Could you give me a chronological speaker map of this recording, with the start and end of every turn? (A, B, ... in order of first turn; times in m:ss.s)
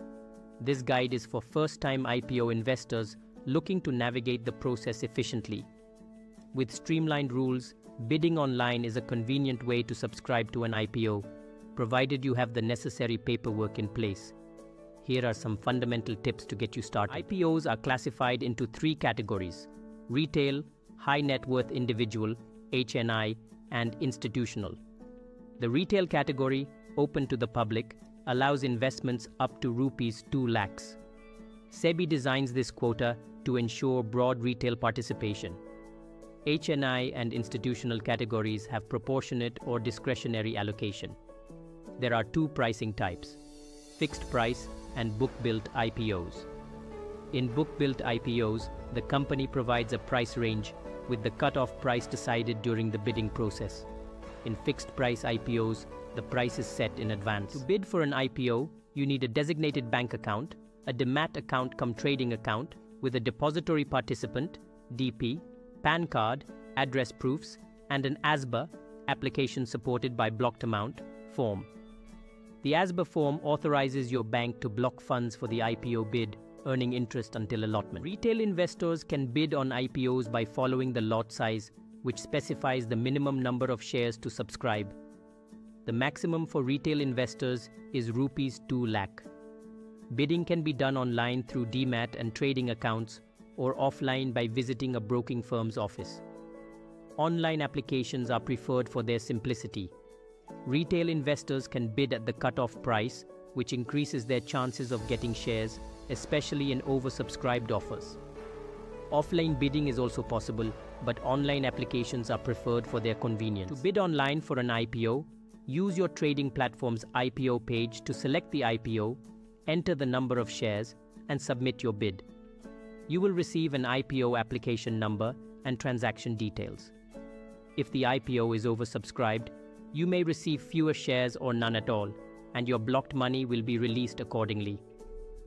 0:00.6-0:05.6 A
0:06.5-0:14.3 A
0:15.0-0:24.8 A
0:25.6-0:31.0 A
0:31.7-0:35.6 A
0:36.4-0:41.2 A
0:42.0-0:43.4 A
0:44.0-0:46.5 A
0:47.3-0:53.9 A
0:54.4-1:11.7 A
1:12.6-1:24.9 A
1:25.8-1:29.3 A
1:30.1-1:36.2 A
1:37.2-1:39.9 A
1:40.6-1:48.2 A
1:49.1-2:02.2 A
2:03.1-2:06.9 A
2:07.8-2:14.8 A